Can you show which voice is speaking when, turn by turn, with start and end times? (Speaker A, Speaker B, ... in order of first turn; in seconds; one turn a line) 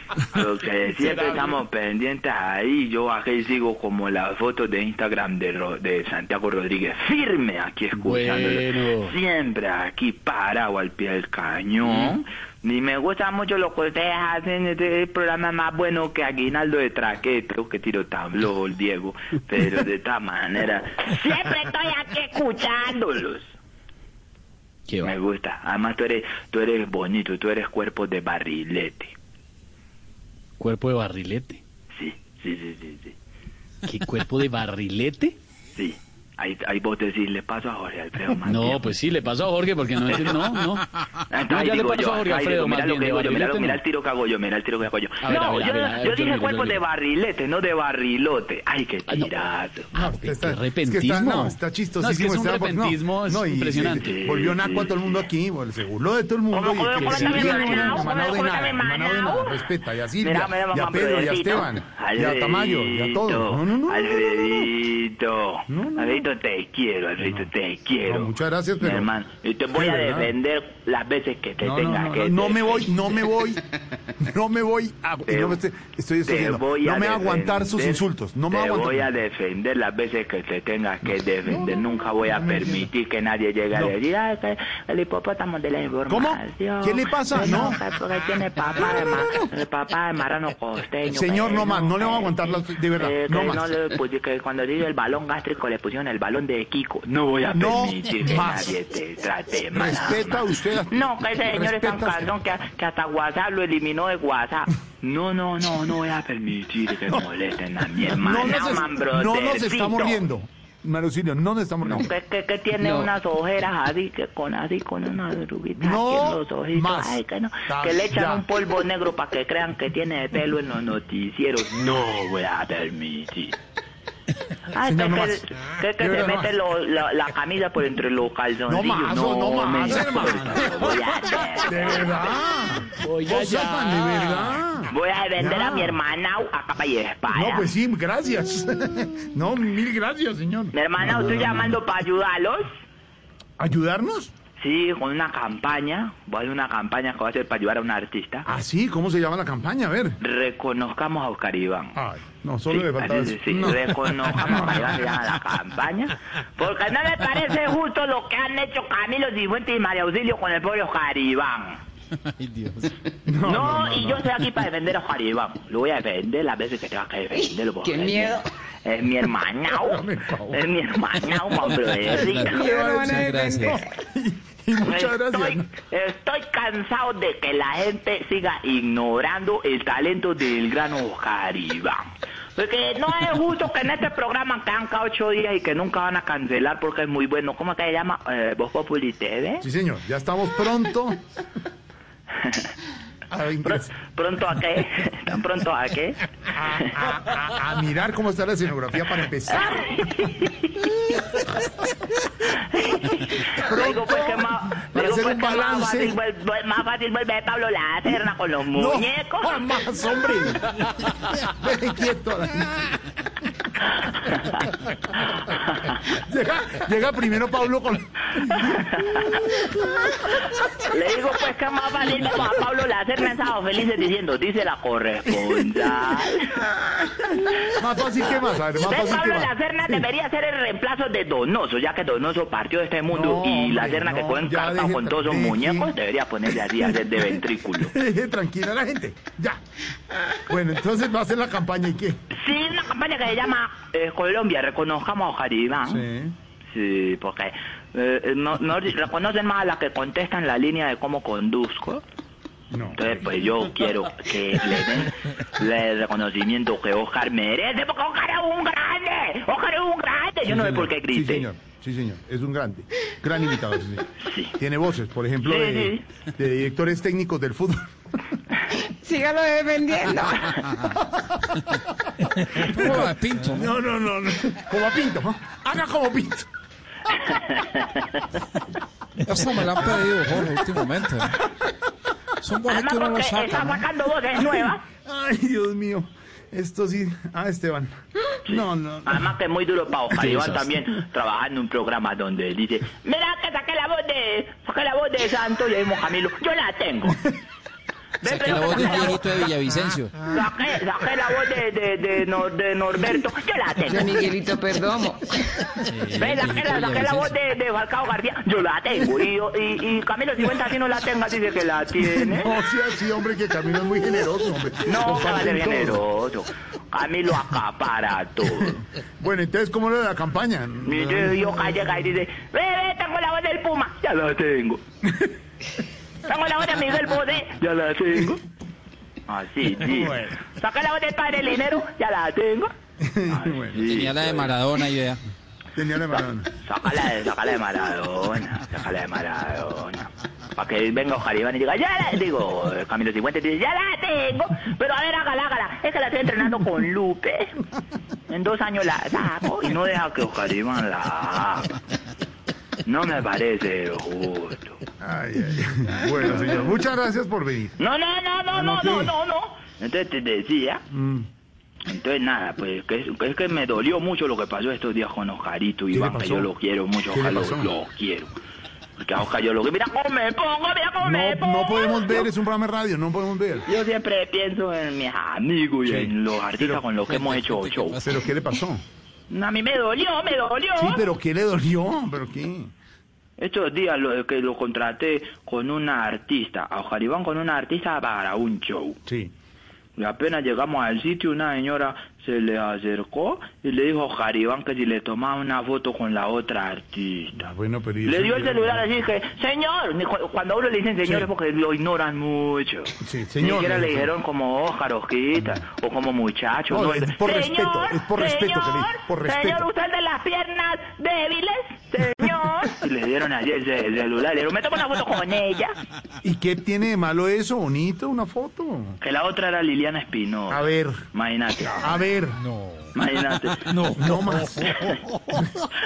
Speaker A: 0.3-23.5
Speaker B: 0.9-1.6
Speaker B: 8.0-9.1
Speaker B: 11.8-12.2
Speaker B: 24.9-25.1
Speaker A: 25.0-29.1
Speaker B: 30.6-31.6
Speaker A: 31.9-33.1
Speaker B: 33.8-35.4
Speaker A: 35.7-38.9
Speaker B: 38.4-43.8
Speaker A: 41.3-49.9
Speaker B: 45.2-46.8
Speaker C: 49.9-64.7
Speaker B: 50.0-54.0
Speaker A: 54.0-55.2
Speaker A: 56.5-59.6
Speaker B: 57.0-57.4
Speaker A: 60.2-72.9
Speaker C: 65.7-66.2
Speaker C: 67.2-67.5
Speaker C: 68.0-69.1
Speaker C: 69.7-70.3
Speaker C: 71.6-73.6
Speaker C: 74.2-79.1
Speaker A: 75.3-75.6
Speaker A: 76.2-92.3
Speaker C: 81.4-82.9
Speaker C: 86.1-87.8
Speaker C: 91.1-93.7
Speaker A: 93.0-110.2
Speaker C: 97.5-98.7
Speaker C: 99.7-102.3
Speaker C: 108.0-112.1
Speaker A: 111.8-123.5
Speaker D: 112.8-113.1
Speaker C: 115.8-118.4
Speaker A: 124.7-132.2
Speaker C: 124.8-126.5
Speaker C: 128.7-136.0
Speaker B: 133.0-134.5
Speaker A: 134.9-137.7
Speaker C: 137.3-141.8
Speaker A: 140.7-142.7
Speaker C: 143.6-144.3
Speaker A: 144.6-148.5
Speaker C: 148.4-150.2
Speaker A: 150.2-151.9
Speaker C: 151.9-155.0
Speaker A: 152.7-161.8
Speaker E: 162.2-163.0
Speaker C: 163.2-164.3
Speaker A: 163.4-172.7
Speaker D: 167.8-168.4
Speaker C: 169.7-170.6
Speaker E: 172.0-173.8
Speaker D: 172.1-173.7
Speaker C: 172.6-175.7
Speaker A: 174.8-182.0
Speaker A: 182.6-189.6
Speaker C: 189.6-191.2
Speaker A: 192.3-192.7
Speaker C: 193.3-194.0
Speaker A: 193.7-196.2
Speaker C: 196.5-200.2
Speaker A: 199.6-200.9
Speaker C: 201.6-201.9
Speaker A: 202.5-209.6
Speaker C: 203.5-206.2
Speaker C: 208.7-213.0
Speaker C: 214.2-215.4
Speaker C: 215.9-220.5
Speaker A: 220.8-226.5
Speaker C: 226.7-230.0
Speaker A: 228.8-237.9
Speaker C: 233.1-235.9
Speaker C: 236.8-239.6
Speaker C: 240.5-242.2
Speaker A: 242.3-246.0
Speaker C: 245.8-246.3
Speaker A: 246.7-252.0
Speaker C: 252.7-253.3
Speaker A: 252.9-261.5
Speaker C: 260.4-267.8
Speaker A: 264.2-264.5
Speaker A: 265.4-266.0
Speaker D: 269.0-270.3
Speaker C: 271.0-271.4
Speaker E: 272.5-273.7
Speaker C: 272.6-276.5
Speaker A: 277.4-278.0
Speaker E: 279.2-281.4
Speaker E: 282.4-283.9
Speaker A: 282.7-284.8
Speaker C: 284.4-287.9
Speaker C: 288.5-289.3
Speaker A: 288.5-297.2
Speaker B: 290.1-290.7
Speaker A: 298.2-299.3
Speaker E: 298.2-300.3
Speaker A: 300.3-304.2
Speaker D: 303.9-305.3
Speaker E: 305.9-307.3
Speaker A: 306.1-312.5
Speaker C: 311.9-316.0
Speaker A: 314.9-318.8
Speaker C: 318.6-321.3
Speaker A: 320.9-324.8
Speaker A: 326.2-328.4
Speaker A: 329.3-332.7
Speaker C: 329.8-330.5
Speaker C: 333.0-333.9
Speaker A: 333.3-334.6
Speaker E: 333.8-335.2
Speaker C: 335.7-336.5
Speaker A: 336.1-347.5
Speaker A: 348.3-351.7
Speaker A: 352.8-354.8
Speaker C: 355.0-357.7
Speaker A: 356.2-356.7
Speaker A: 357.8-360.8
Speaker C: 358.5-359.1
Speaker C: 360.9-361.3
Speaker A: 361.8-368.3
Speaker C: 365.9-366.5
Speaker C: 367.1-367.7
Speaker A: 369.0-372.3
Speaker C: 371.0-373.6
Speaker A: 373.6-378.0
Speaker C: 375.8-376.8
Speaker E: 377.1-378.0
Speaker C: 378.0-378.8
Speaker A: 379.3-381.0
Speaker C: 380.8-382.7
Speaker A: 383.4-389.0
Speaker C: 389.1-389.3
Speaker A: 390.0-397.4
Speaker C: 397.4-398.9
Speaker A: 398.0-415.7
Speaker C: 401.0-401.3
Speaker C: 403.0-404.1
Speaker C: 406.7-409.6
Speaker C: 416.2-419.0
Speaker A: 419.0-422.0
Speaker C: 420.5-421.1
Speaker C: 421.8-422.4
Speaker A: 422.9-423.9
Speaker C: 423.7-425.7